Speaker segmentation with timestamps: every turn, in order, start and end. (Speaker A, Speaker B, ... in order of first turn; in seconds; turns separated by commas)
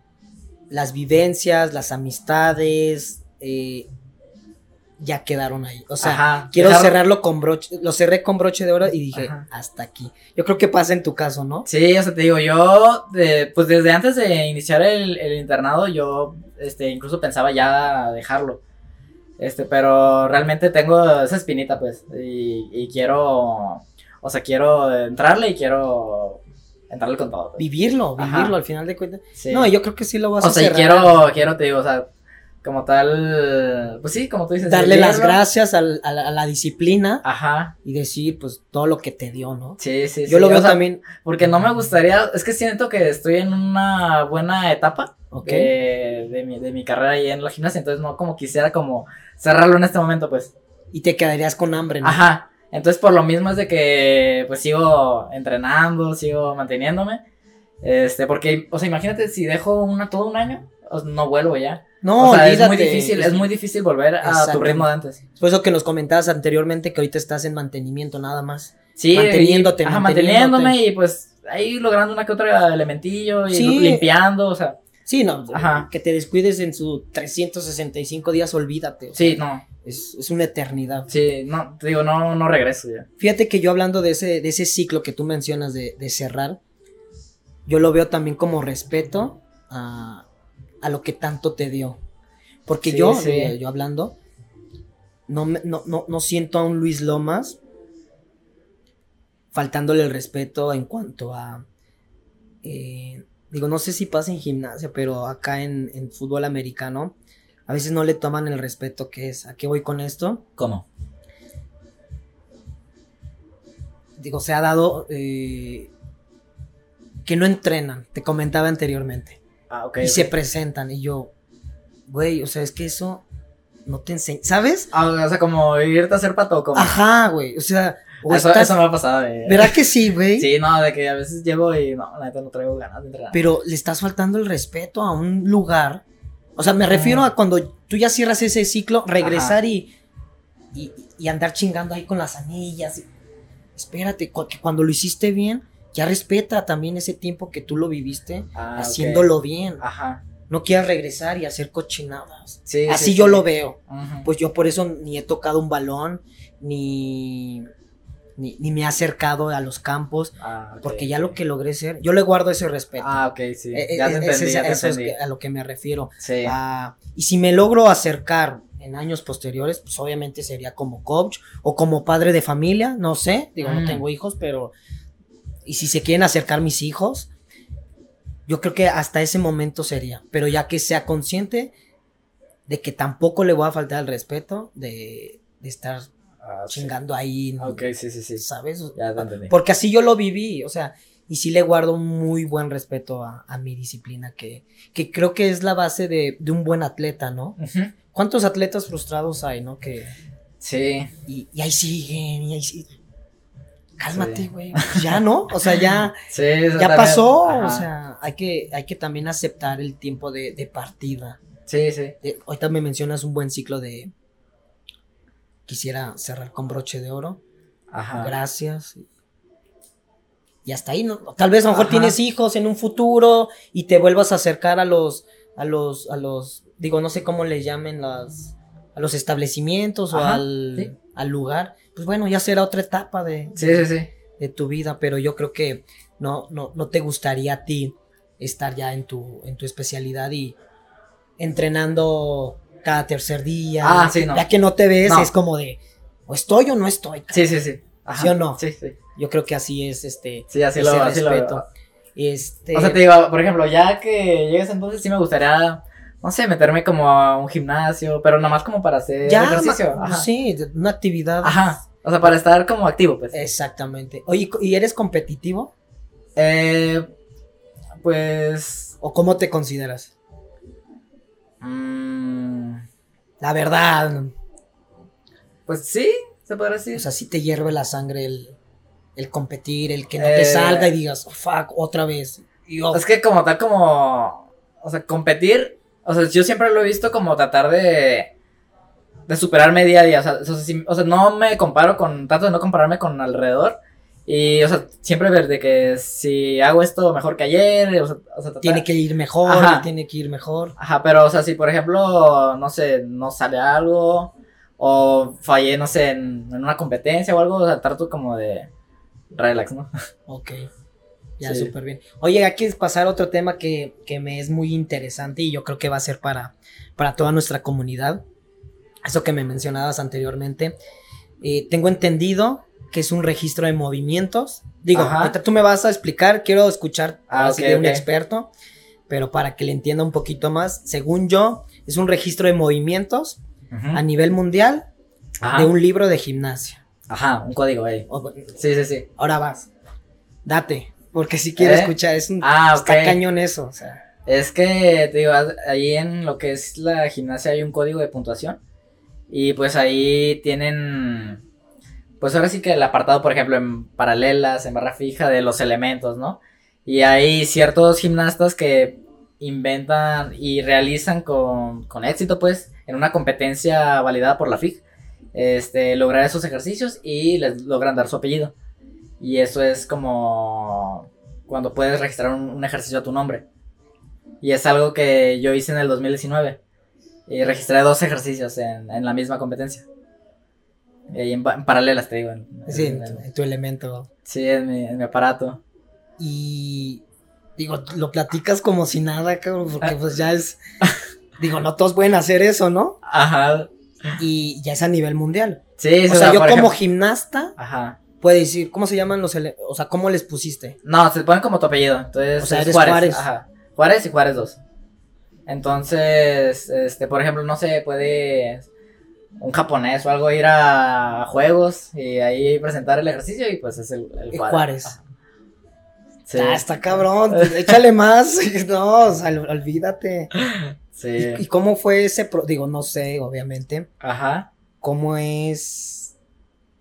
Speaker A: 0.7-3.9, Speaker A: 5.0-11.7, Speaker B: 6.0-7.0, Speaker B: 9.1-9.4, Speaker B: 11.7-18.6, Speaker B: 19.4-27.6, Speaker A: 27.6-31.1, Speaker B: 28.2-28.5, Speaker B: 29.4-29.7, Speaker B: 30.4-32.1, Speaker B: 32.6-35.4, Speaker A: 34.6-37.2, Speaker B: 37.2-37.7, Speaker A: 37.8-41.0, Speaker B: 39.8-50.5, Speaker A: 45.3-45.7, Speaker A: 50.9-52.2, Speaker B: 52.0-57.2, Speaker B: 57.8-65.2, Speaker A: 62.0-63.5, Speaker A: 64.2-64.8, Speaker A: 65.4-70.8, Speaker B: 69.0-74.8, Speaker A: 73.5-74.1, Speaker A: 75.0-81.1, Speaker B: 75.5-75.9, Speaker B: 79.1-79.6, Speaker B: 81.1-83.1, Speaker A: 83.2-86.6, Speaker A: 87.7-90.2, Speaker A: 90.8-92.0, Speaker A: 92.7-94.2, Speaker B: 92.8-93.5, Speaker A: 95.3-97.6, Speaker A: 99.5-101.6, Speaker A: 102.6-107.1, Speaker A: 107.7-110.4, Speaker B: 110.6-110.8, Speaker A: 114.2-115.9, Speaker A: 117.2-119.4, Speaker B: 119.7-120.3, Speaker A: 120.0-121.3, Speaker A: 122.1-123.2, Speaker A: 123.8-124.9, Speaker B: 124.9-126.9, Speaker A: 126.7-128.8, Speaker B: 128.3-129.8, Speaker A: 129.4-130.5, Speaker B: 130.3-133.4, Speaker A: 133.3-136.0, Speaker A: 136.6-139.9, Speaker B: 136.9-137.2, Speaker B: 139.2-139.6, Speaker A: 140.7-143.1, Speaker A: 143.8-149.8, Speaker B: 148.5-150.2, Speaker A: 150.5-157.7, Speaker B: 152.7-154.3, Speaker A: 158.4-163.2, Speaker B: 160.4-161.3, Speaker B: 163.0-165.1, Speaker A: 163.7-174.7, Speaker B: 166.2-166.5, Speaker B: 173.6-174.0, Speaker A: 175.7-177.3, Speaker A: 178.5-181.7, Speaker A: 182.7-186.1, Speaker B: 186.4-186.9, Speaker A: 186.7-187.8, Speaker B: 187.6-188.4, Speaker A: 188.3-197.6, Speaker B: 188.9-189.5, Speaker B: 197.6-197.9, Speaker A: 198.1-200.1, Speaker B: 200.6-201.1, Speaker A: 201.3-202.9, Speaker A: 204.0-206.2, Speaker B: 204.1-205.8, Speaker B: 206.3-207.8, Speaker A: 206.8-211.4, Speaker B: 211.7-212.1, Speaker A: 212.2-214.1, Speaker A: 215.7-217.4, Speaker B: 217.9-218.3, Speaker A: 218.2-219.1, Speaker A: 220.7-233.9, Speaker B: 221.7-222.2, Speaker B: 230.1-230.9, Speaker B: 233.6-234.1, Speaker A: 234.4-240.6, Speaker A: 241.4-247.6, Speaker B: 243.8-244.4, Speaker B: 245.0-245.3, Speaker B: 247.3-248.9, Speaker A: 248.1-248.6, Speaker A: 249.1-253.0, Speaker B: 250.5-251.6, Speaker B: 252.7-260.2, Speaker A: 259.2-261.6, Speaker B: 261.4-263.3, Speaker A: 263.3-265.7, Speaker B: 266.4-267.1, Speaker B: 268.0-268.9, Speaker A: 269.0-270.1, Speaker B: 271.6-272.8, Speaker A: 273.4-274.3, Speaker B: 275.7-277.0, Speaker A: 276.9-278.6, Speaker A: 279.1-283.0, Speaker B: 280.2-280.9, Speaker B: 282.9-288.3, Speaker B: 289.3-298.8, Speaker A: 298.6-300.7, Speaker B: 299.4-299.9, Speaker B: 300.8-308.7, Speaker B: 309.3-309.9, Speaker A: 310.3-310.7, Speaker A: 311.4-318.2, Speaker B: 311.4-311.7, Speaker A: 319.0-320.8, Speaker A: 321.4-328.5, Speaker B: 324.9-325.4, Speaker B: 327.3-328.0, Speaker A: 329.1-333.4, Speaker B: 333.7-334.0, Speaker A: 333.9-334.9, Speaker B: 335.4-335.7, Speaker A: 335.5-336.8, Speaker B: 337.1-339.1, Speaker A: 338.1-338.6, Speaker A: 339.1-339.7, Speaker A: 340.4-344.0, Speaker B: 341.6-343.2, Speaker B: 344.2-348.6, Speaker B: 349.3-351.4, Speaker B: 352.2-364.8, Speaker B: 365.3-368.5, Speaker B: 369.2-373.4, Speaker B: 374.4-376.6, Speaker B: 377.3-379.9, Speaker B: 381.1-383.2, Speaker A: 382.7-384.1, Speaker B: 384.2-385.6, Speaker A: 386.2-387.0, Speaker A: 387.6-390.6, Speaker A: 391.4-393.0, Speaker B: 393.0-394.2, Speaker A: 394.2-397.5, Speaker B: 395.8-396.7, Speaker B: 397.6-398.0, Speaker A: 398.2-400.8, Speaker B: 400.8-404.6, Speaker A: 402.4-403.2, Speaker B: 405.5-408.7, Speaker B: 409.4-415.0, Speaker A: 414.3-415.0, Speaker B: 416.2-416.6, Speaker A: 416.3-420.3, Speaker B: 417.3-417.7, Speaker B: 420.3-421.4, Speaker A: 421.2-423.9, Speaker B: 424.0-424.5, Speaker A: 424.8-426.1